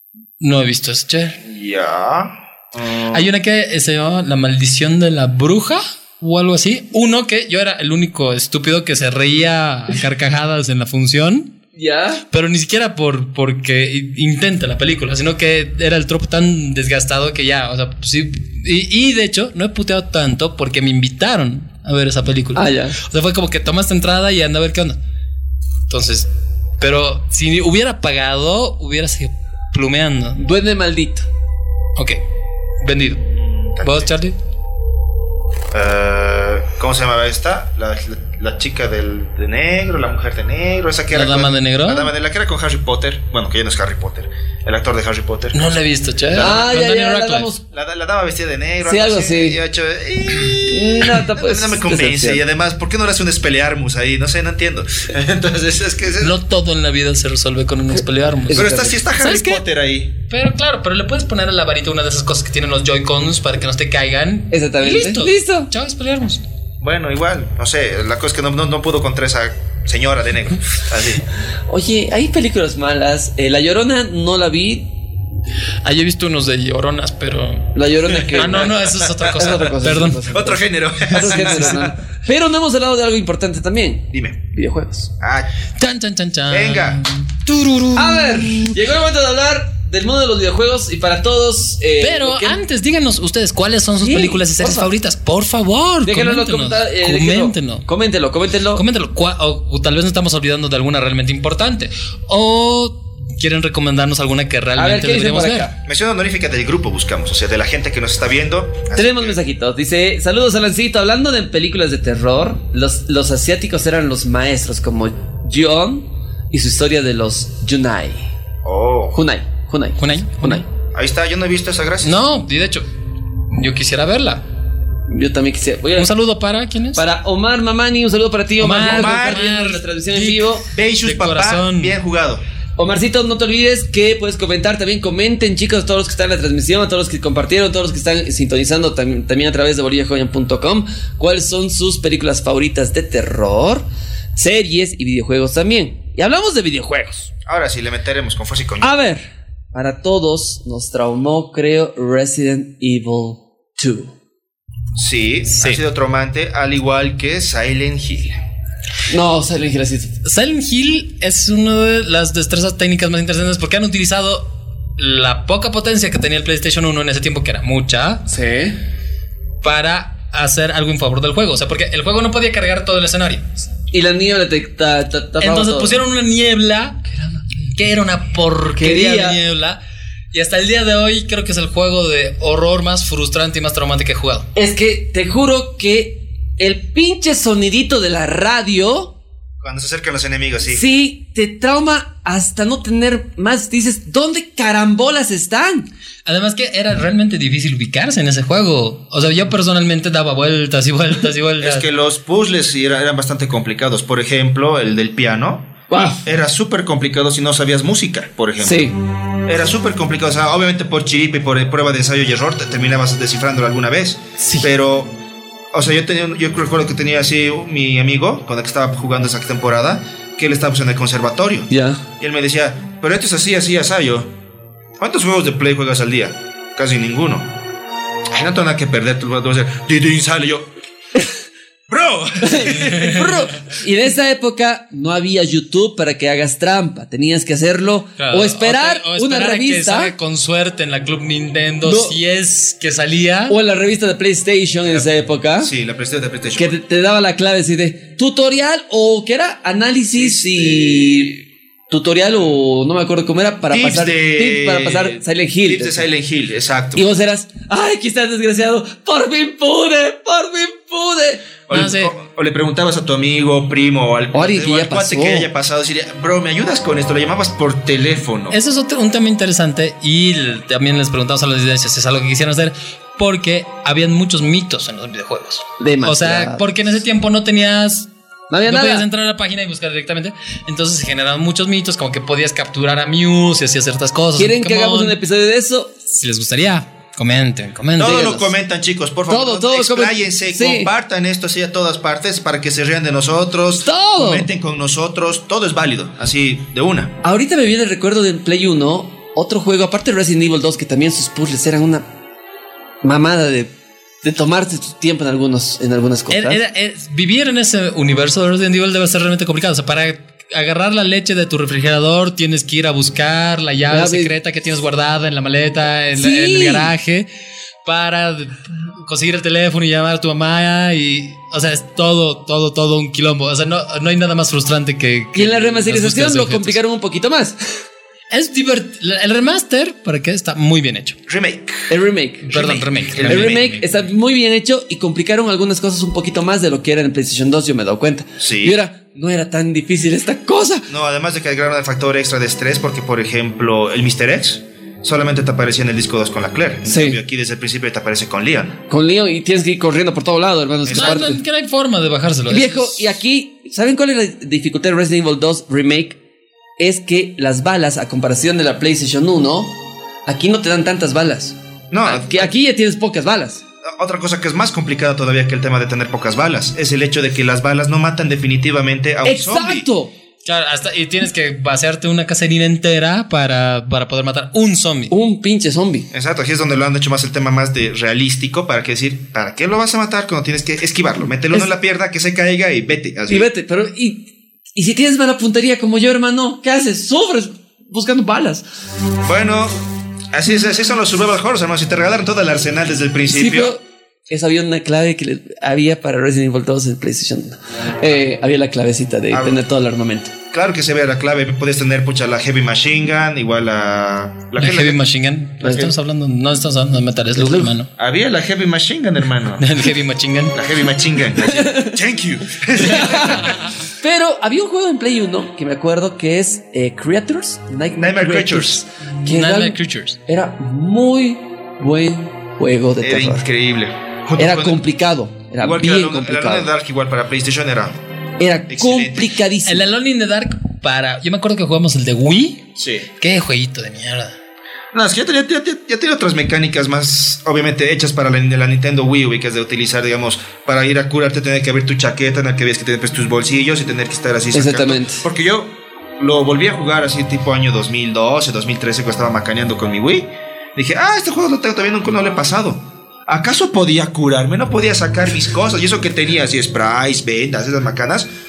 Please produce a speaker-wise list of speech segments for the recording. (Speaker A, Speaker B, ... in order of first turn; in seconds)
Speaker A: 0.4-1.4, 3.1-11.6, 12.3-25.0, 25.9-30.4, 32.8-33.2, 33.8-34.4, 41.1-42.1, 45.5-47.5, 56.2-59.6, 60.3-66.4, 75.8-80.3, 85.8-88.8, 92.0-97.9, 98.7-105.7, 120.0-120.7, 122.0-122.9, 123.5-124.4, 126.0-127.0, 128.6-132.0, 160.2-168.3, 169.6-173.7, 175.4-177.0, 177.6-179.8, 180.3-184.5, 196.2-201.9, 232.8-233.3, 238.2-243.6, 261.7-262.1, 268.5-278.1, 278.6-285.2, 286.1-288.5, 306.3-317.3, 317.8-326.8, 328.3-331.2, 332.4-333.8, 350.9-353.1, 370.4-375.1, 404.6-407.9, 409.6-410.6, 419.3-420.2, 429.6-434.4
Speaker B: 1.4-3.3, 33.3-34.1, 35.7-45.8, 46.3-46.6, 47.7-56.4, 58.5-60.1, 66.8-71.2, 78.7-79.4, 80.3-81.9, 84.1-84.4, 85.2-85.5, 86.5-87.0, 105.8-109.4, 118.7-119.2, 120.9-122.2, 128.9-129.4, 130.7-132.4, 147.5-148.9, 154.9-158.4, 189.6-190.8, 201.6-208.9, 209.5-215.1, 215.7-224.3, 225.0-227.5, 228.3-230.7, 231.9-233.3, 244.9-246.8, 250.1-251.1, 253.7-257.1, 261.7-268.6, 288.0-297.1, 331.3-331.9, 332.5-333.9, 338.4-338.8, 340.9-348.8, 350.9-351.3, 361.9-362.5, 363.9-369.9, 376.1-383.5, 389.2-389.7, 390.3-393.8, 399.3-399.6, 400.5-405.0, 408.0-409.7, 410.5-413.6, 418.0-418.8, 423.0-424.8, 425.6-428.0, 428.7-429.3, 432.8-433.1, 434.9-458.3
Speaker C: 11.8-12.2, 22.6-23.0, 30.4-31.3, 46.4-47.6, 48.8-49.6, 50.5-52.4, 58.5-59.0, 64.5-65.7, 71.7-74.9, 77.8-85.1, 88.0-92.6, 94.0-94.9, 96.0-98.8, 104.8-105.7, 108.9-118.3, 119.1-120.7, 125.1-126.1, 127.0-130.7, 132.8-147.3, 148.8-154.1, 159.1-160.2, 168.3-168.8, 173.9-176.0, 177.1-177.5, 178.8-179.4, 184.6-189.1, 190.6-195.9, 205.9-206.2, 208.6-208.9, 214.4-214.7, 221.7-222.0, 232.4-240.1, 241.8-242.2, 243.5-245.7, 246.6-256.1, 257.0-261.6, 264.3-265.5, 275.8-276.6, 278.5-279.1, 284.4-286.1, 289.3-290.9, 293.8-294.5, 297.2-302.1, 303.0-303.7, 304.2-306.6, 313.9-314.3, 316.1-316.9, 325.4-327.8, 331.9-332.6, 333.2-340.9, 346.9-347.2, 348.9-351.4, 352.5-356.2, 356.8-359.7, 360.3-363.6, 369.2-370.1, 375.1-376.1, 383.3-388.6, 393.3-400.3, 405.6-405.9, 407.4-407.8, 411.4-412.0, 412.8-423.4, 424.4-426.7, 428.4-429.9, 444.5-445.2